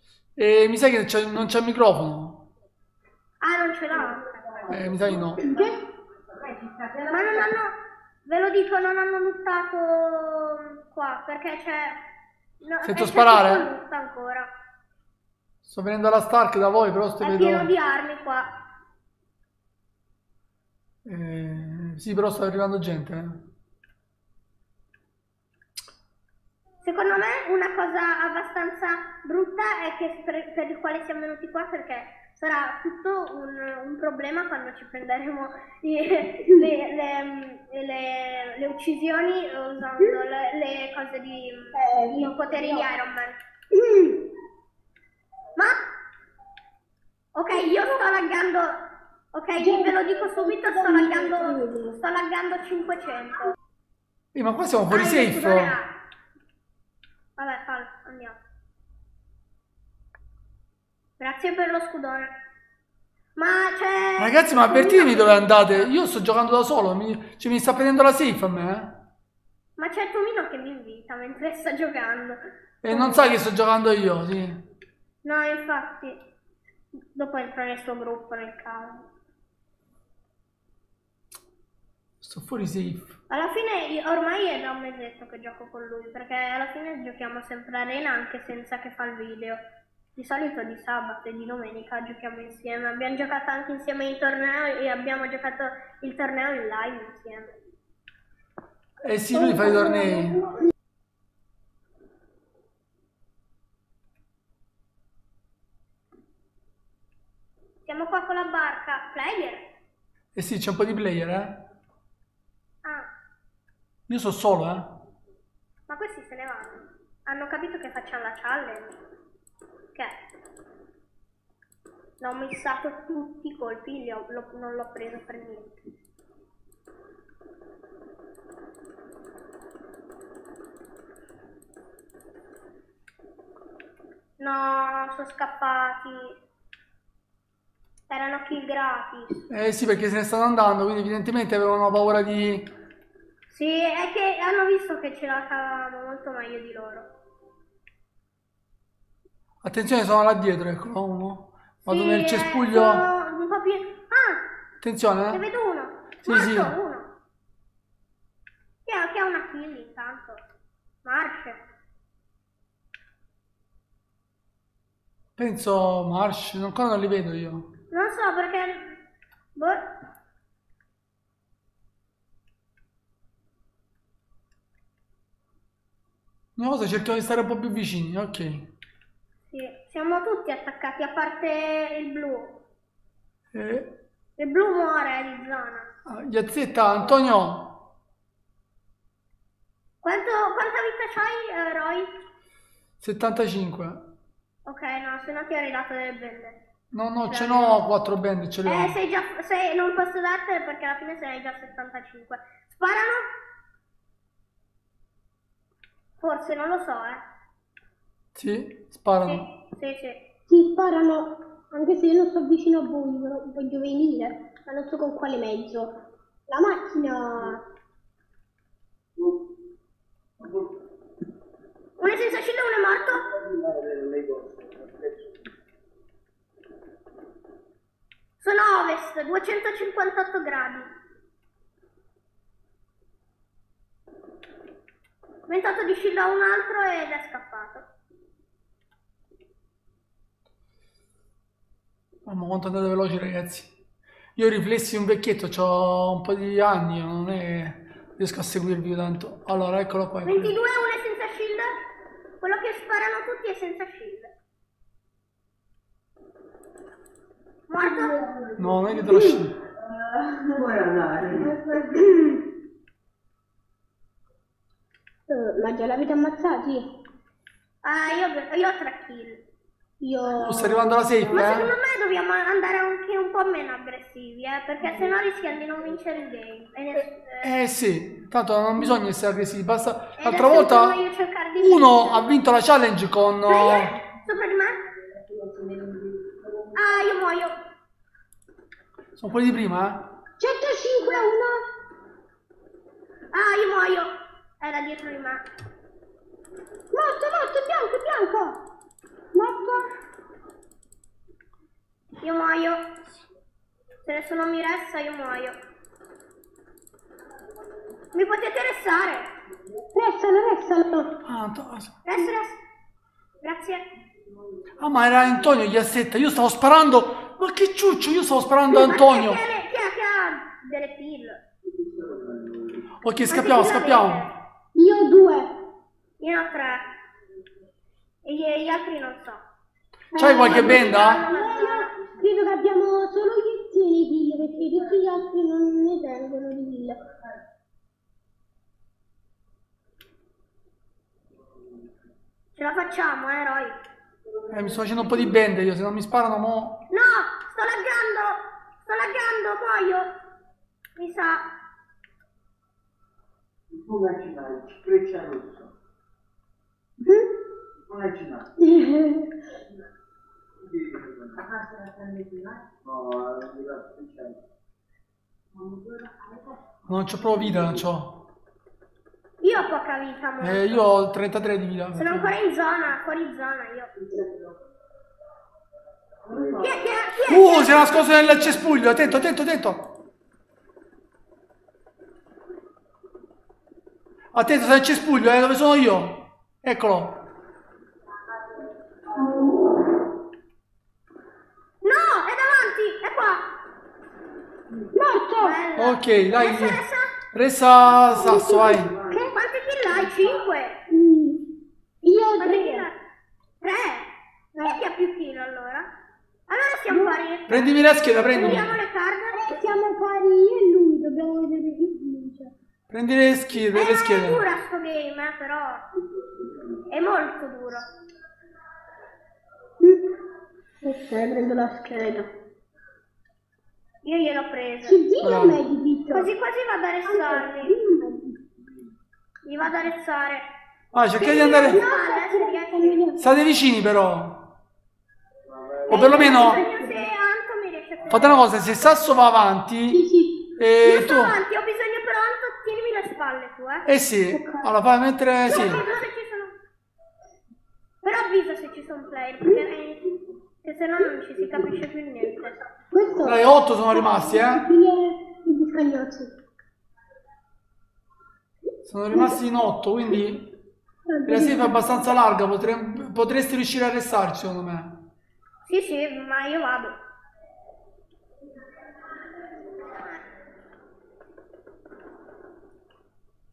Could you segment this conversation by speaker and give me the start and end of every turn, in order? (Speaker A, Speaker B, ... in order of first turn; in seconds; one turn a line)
Speaker A: 0.4-2.5
Speaker B: 3.4-4.7
Speaker A: 4.7-5.4
Speaker C: 5.3-5.8
Speaker B: 7.0-12.0
Speaker B: 12.6-14.5
Speaker A: 12.8-13.7
Speaker A: 15.6-17.7
Speaker B: 17.2-18.5
Speaker A: 21.1-23.4
Speaker B: 26.8-43.4
Speaker C: 36.4-36.7
Speaker C: 41.7-42.9
Speaker C: 43.7-44.2
Speaker B: 47.3-48.8
Speaker B: 49.3-53.5
Speaker C: 49.6-52.0
Speaker A: 54.4-55.8
Speaker B: 54.9-55.9
Speaker B: 57.4-58.4
Speaker B: 61.2-62.3
Speaker B: 63.4-65.9
Speaker A: 64.2-69.0
Speaker B: 69.8-72.4
Speaker A: 72.8-74.6
Speaker B: 72.9-73.4
Speaker B: 75.2-76.2
Speaker B: 77.1-79.1
Speaker A: 82.2-83.1
Speaker B: 83.3-89.6
Speaker B: 90.2-97.5
Speaker A: 99.0-100.4
Speaker C: 99.3-100.6
Speaker B: 107.9-109.6
Speaker A: 110.3-111.6
Speaker A: 114.1-115.0
Speaker B: 115.9-119.0
Speaker B: 122.2-125.8
Speaker B: 134.4-136.4
Speaker B: 138.1-139.4
Speaker A: 139.5-142.7
Speaker B: 143.5-147.1
Speaker A: 149.6-153.1
Speaker B: 151.9-154.4
Speaker A: 154.8-155.4
Speaker B: 155.3-157.1
Speaker A: 156.2-156.8
Speaker B: 158.8-160.4
Speaker B: 161.0-161.6
Speaker A: 165.4-167.7
Speaker B: 167.9-169.0
Speaker B: 169.6-169.9
Speaker A: 176.6-178.7
Speaker B: 179.5-182.6
Speaker A: 183.5-183.9
Speaker B: 184.4-185.9
Speaker A: 186.1-187.8
Speaker B: 190.0-192.1
Speaker A: 193.0-194.0
Speaker B: 194.7-196.6
Speaker A: 196.9-199.0
Speaker B: 197.3-197.8
Speaker B: 198.7-203.3
Speaker B: 206.2-207.2
Speaker A: 208.3-209.4
Speaker B: 209.2-210.2
Speaker C: 210.5-215.9
Speaker C: 216.5-217.6
Speaker B: 222.0-223.2
Speaker D: 223.4-225.2
Speaker B: 228.4-230.9
Speaker B: 235.5-237.9
Speaker A: 242.3-243.7
Speaker A: 244.4-250.6
Speaker B: 250.2-251.7
Speaker B: 252.4-254.3
Speaker B: 257.7-258.4
Speaker C: 257.8-259.4
Speaker A: 258.6-259.6
Speaker D: 260.2-261.6
Speaker C: 261.7-262.4
Speaker C: 265.3-266.9
Speaker B: 267.8-269.4
Speaker C: 270.0-271.5
Speaker A: 270.4-271.7
Speaker B: 271.3-277.5
Speaker A: 276.9-281.0
Speaker B: 280.2-282.2
Speaker A: 281.6-283.9
Speaker B: 283.5-284.8
Speaker B: 286.7-287.6
Speaker A: 289.2-290.1
Speaker C: 290.4-291.6
Speaker B: 293.3-295.4
Speaker C: 296.9-298.6
Speaker C: 299.3-299.9
Speaker B: 302.2-302.8
Speaker B: 304.0-305.6
Speaker B: 308.1-309.3
Speaker C: 309.9-311.1
Speaker A: 311.2-312.0
Speaker B: 312.1-312.6
Speaker B: 313.4-313.8
Speaker A: 314.8-319.4
Speaker B: 318.7-321.4
Speaker D: 322.0-322.8
Speaker A: 323.0-324.2
Speaker B: 323.3-324.3
Speaker C: 324.7-325.5
Speaker B: 326.2-326.9
Speaker B: 328.2-329.4
Speaker C: 330.1-337.0
Speaker A: 330.2-331.2
Speaker B: 330.2-332.1
Speaker B: 342.6-343.8
Speaker A: 344.5-346.9
Speaker B: 346.9-350.1
Speaker B: 351.0-351.4
Speaker D: 353.7-355.7
Speaker C: 357.0-357.3
Speaker D: 357.9-358.5
Speaker C: 358.6-359.3
Speaker D: 360.7-361.4
Speaker D: 362.8-364.4
Speaker A: 366.9-368.3
Speaker B: 369.4-370.8
Speaker A: 370.4-372.3
Speaker B: 371.9-373.9
Speaker B: 376.6-378.2
Speaker A: 377.2-379.9
Speaker A: 384.3-387.2
Speaker B: 391.8-393.4
Speaker C: 394.9-395.6
Speaker B: 395.4-397.1
Speaker A: 395.8-396.8
Speaker A: 397.3-398.9
Speaker C: 398.2-399.4
Speaker B: 399.3-400.8
Speaker C: 400.9-401.4
Speaker C: 402.0-402.9
Speaker B: 402.4-403.0
Speaker B: 403.6-404.1
Speaker C: 404.6-404.8
Speaker B: 404.6-405.9
Speaker B: 406.5-409.4
Speaker C: 406.9-407.2
Speaker A: 407.5-408.8
Speaker C: 409.3-412.5
Speaker A: 412.9-414.4
Speaker B: 413.7-415.8
Speaker B: 416.9-417.9
Speaker C: 420.8-422.3
Speaker B: 424.0-425.0
Speaker C: 424.9-426.3
Speaker A: 425.2-425.6
Speaker B: 426.1-427.8
Speaker C: 427.1-428.4
Speaker B: 429.5-430.5
Speaker A: 430.9-431.8
Speaker B: 431.2-433.1
Speaker C: 431.3-433.4
Speaker A: 433.2-434.5
Speaker A: 435.9-436.6
Speaker B: 435.9-438.5
Speaker C: 436.1-437.0
Speaker A: 438.1-440.0
Speaker C: 439.9-440.5
Speaker A: 440.6-441.4
Speaker B: 440.8-443.9
Speaker A: 443.9-445.8
Speaker C: 444.3-444.7
Speaker B: 445.5-446.5
Speaker B: 448.0-450.0
Speaker B: 450.6-452.6
Speaker C: 452.8-456.3
Speaker A: 453.2-454.6
Speaker A: 458.9-460.5
Speaker C: 461.1-461.9
Speaker A: 461.3-465.0
Speaker B: 465.7-466.9
Speaker B: 469.9-470.1